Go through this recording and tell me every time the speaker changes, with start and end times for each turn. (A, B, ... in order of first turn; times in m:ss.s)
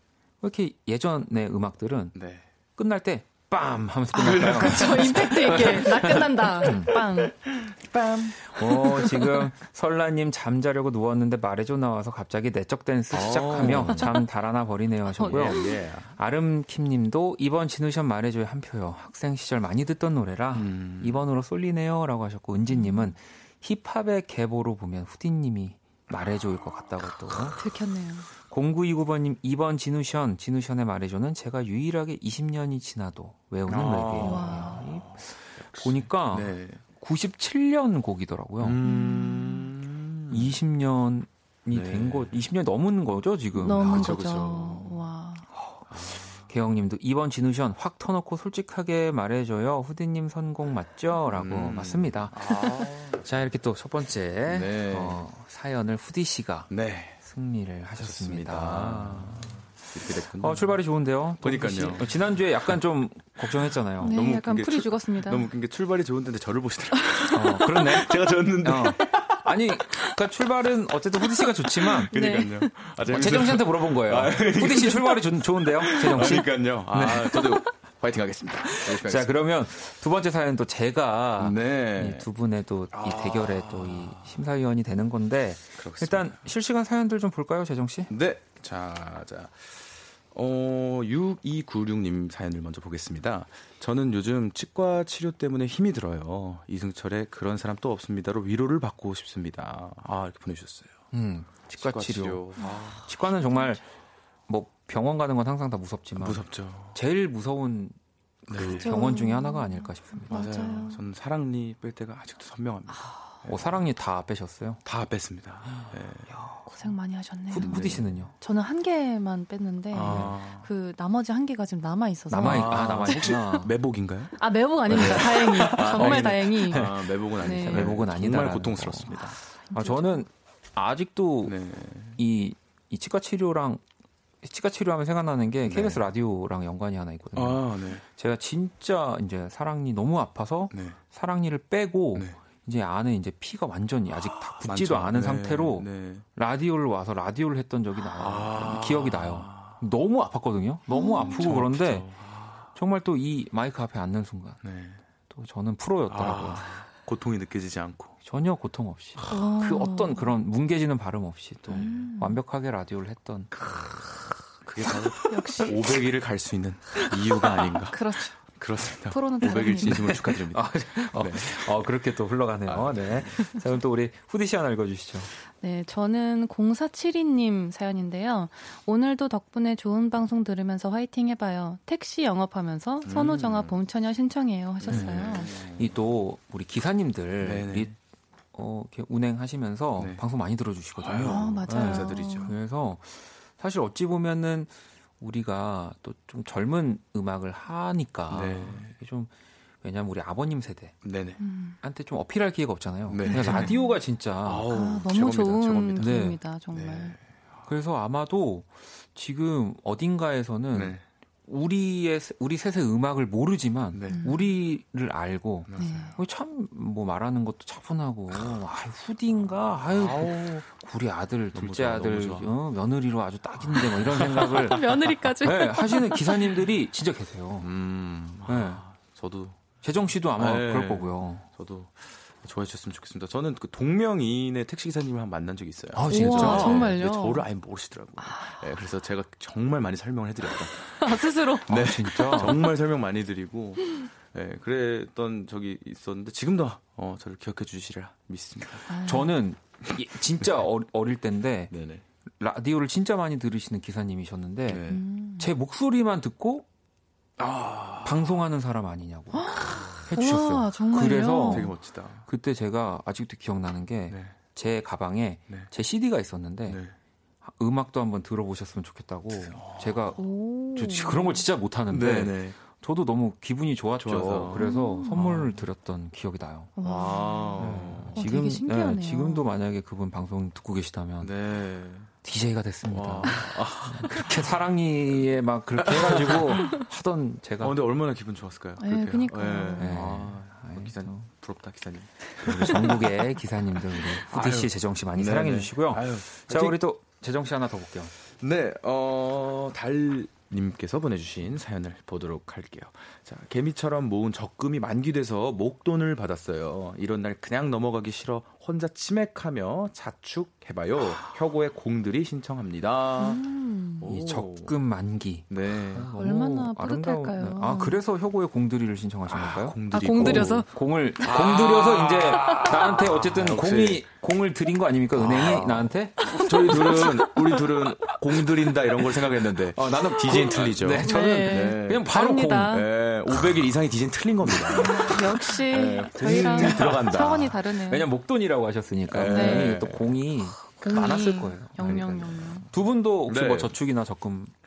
0:00.4-0:02.1 A
0:02.1-0:02.4 B
0:02.8-0:06.9 A
0:04.1-0:07.4 C
0:04.3-0:06.2 B
0:07.3-0:08.4 B
0:08.4-0:27.6 A
0:09.0-0:09.5 C
0:13.1-0:14.1 B
0:13.8-0:14.3 C
0:15.2-0:15.8 C
0:15.2-0:16.1 B
0:20.5-0:21.2 B
0:22.7-0:23.1 C
0:26.1-0:26.6 B
0:27.6-0:28.3 C
0:28.4-0:38.8 A
0:33.7-0:36.8 B
0:34.2-0:34.9 C
0:38.6-0:40.6 B
0:38.8-0:39.7 C
0:40.3-0:44.2 A
0:41.7-0:42.4 B
0:43.5-0:45.5 C
0:43.7-0:45.0 B
0:45.5-0:52.7 A
0:45.9-0:46.4 B
0:51.3-0:53.2 B
0:52.5-0:52.9 C
0:53.2-0:59.6 A
0:54.4-0:55.2 B
0:56.7-0:57.2 B
0:58.0-1:00.8 B
1:00.4-1:04.1 A
1:01.4-1:02.8 B
1:03.4-1:10.1 B
1:04.0-1:05.5 C
1:07.3-1:12.1 A
1:11.4-1:19.4 B
1:12.1-1:12.9 C
1:13.1-1:17.6 A
1:18.7-1:28.1 A
1:21.4-1:22.3 B
1:22.9-1:24.4 B
1:25.8-1:26.5 B
1:28.1-1:41.0 B
1:41.1-1:43.8 A
1:41.7-1:43.0 B
1:42.6-1:43.0 C
1:44.5-1:48.0 A
1:46.2-1:47.0 B
1:48.5-1:48.9 B
1:48.5-1:50.8 A
1:48.8-1:51.0 C
1:50.3-1:53.8 B
1:52.9-1:53.4 C
1:53.5-1:54.8 A
1:54.8-1:56.4 B
1:55.8-1:56.8 A
1:56.7-2:03.7 C
1:57.5-1:58.3 A
1:57.6-1:58.2 B
1:59.9-2:00.7 B
2:00.0-2:00.4 A
2:02.3-2:03.7 A
2:02.4-2:04.3 B
2:04.4-2:08.0 C
2:04.9-2:09.4 B
2:04.9-2:11.5 A
2:09.6-2:10.2 C
2:11.4-2:12.2 B
2:12.2-2:13.8 A
2:14.4-2:32.1 A
2:15.6-2:16.0 B
2:17.3-2:18.0 B
2:20.7-2:21.0 B
2:22.1-2:22.4 B
2:24.1-2:26.2 B
2:28.1-2:29.8 B
2:30.9-2:31.6 C
2:31.2-2:32.7 B
2:32.7-2:34.6 A
2:34.6-2:35.0 B
2:35.3-2:36.7 A
2:36.1-2:38.2 B
2:38.2-2:43.5 A
2:39.3-2:40.3 C
2:41.7-2:42.0 B
2:41.7-2:42.4 C
2:44.6-2:51.8 B
2:45.2-2:46.1 C
2:46.9-2:48.5 C
2:49.1-2:50.1 C
2:49.6-2:55.3 A
2:52.6-2:53.4 B
2:55.5-3:05.6 C
3:03.0-3:03.8 B
3:04.8-3:06.0 B
3:04.8-3:07.9 A
3:07.4-3:07.9 B
3:08.5-3:19.3 A
3:10.0-3:10.2 B
3:11.0-3:12.5 B
3:11.3-3:12.5 C
3:18.3-3:19.0 B
3:19.8-3:21.0 A
3:21.0-3:21.4 B
3:21.4-3:21.8 C
3:21.8-3:24.7 A
3:23.1-3:23.8 B
3:23.2-3:24.0 C
3:24.4-3:26.2 B
3:24.7-3:27.2 C
3:26.0-3:26.4 A
3:26.7-3:27.2 B
3:27.7-3:31.0 A
3:30.7-3:31.0 B
3:31.5-3:47.7 A
3:33.9-3:34.3 B
3:34.1-3:34.4 C
3:35.7-3:36.1 B
3:35.8-3:36.1 C
3:39.9-3:40.6 B
3:41.5-3:42.5 B
3:43.9-3:44.8 B
3:44.6-3:46.4 C
3:47.6-3:49.7 B
3:48.4-3:48.8 A
3:49.8-3:51.4 A
3:50.4-4:00.9 B
3:55.9-3:56.9 A
3:56.1-3:57.5 C
3:58.2-3:58.6 C
4:01.0-4:02.6 C
4:01.7-4:08.9 B
4:01.7-4:02.5 A
4:08.9-4:09.4 C
4:09.0-4:11.7 A
4:09.8-4:10.5 B
4:11.7-4:12.0 B
4:12.4-4:14.8 A
4:14.7-4:15.0 B
4:14.8-4:15.5 C
4:15.4-4:16.6 A
4:17.4-4:18.4 B
4:18.0-4:21.7 A
4:19.3-4:21.8 C
4:21.5-4:22.2 B
4:22.2-4:26.8 A
4:24.1-4:24.4 B
4:26.6-4:26.9 B
4:27.4-4:30.2 A
4:29.3-4:30.1 B
4:30.2-4:31.4 C
4:30.7-4:36.7 A
4:31.9-4:32.6 B
4:34.0-4:35.6 B
4:34.5-4:35.2 C
4:36.8-4:39.5 C
4:36.8-4:38.2 B
4:37.6-4:41.3 A
4:41.2-4:42.1 B
4:42.2-4:47.8 A
4:42.9-4:44.5 B
4:45.8-4:46.5 B
4:47.6-4:53.1 B
4:48.8-4:50.1 C
4:49.8-4:51.3 A
4:52.4-4:58.1 A
4:53.9-4:56.8 B
4:58.3-5:13.4 B
5:13.2-5:14.1 C
5:14.0-5:14.8 B
5:14.0-5:27.1 A
5:15.5-5:16.1 B
5:16.1-5:18.0 C
5:19.2-5:20.6 B
5:19.9-5:20.7 C
5:21.2-5:24.1 B
5:25.1-5:32.0 B
5:26.3-5:28.2 C
5:29.7-5:32.8 A
5:31.0-5:33.6 C
5:32.7-5:37.6 B
5:34.6-5:38.1 C
5:36.2-5:44.5 A
5:39.1-5:40.2 B
5:39.3-5:39.7 C
5:40.5-5:42.6 C
5:41.8-5:42.7 B
5:43.2-5:43.7 B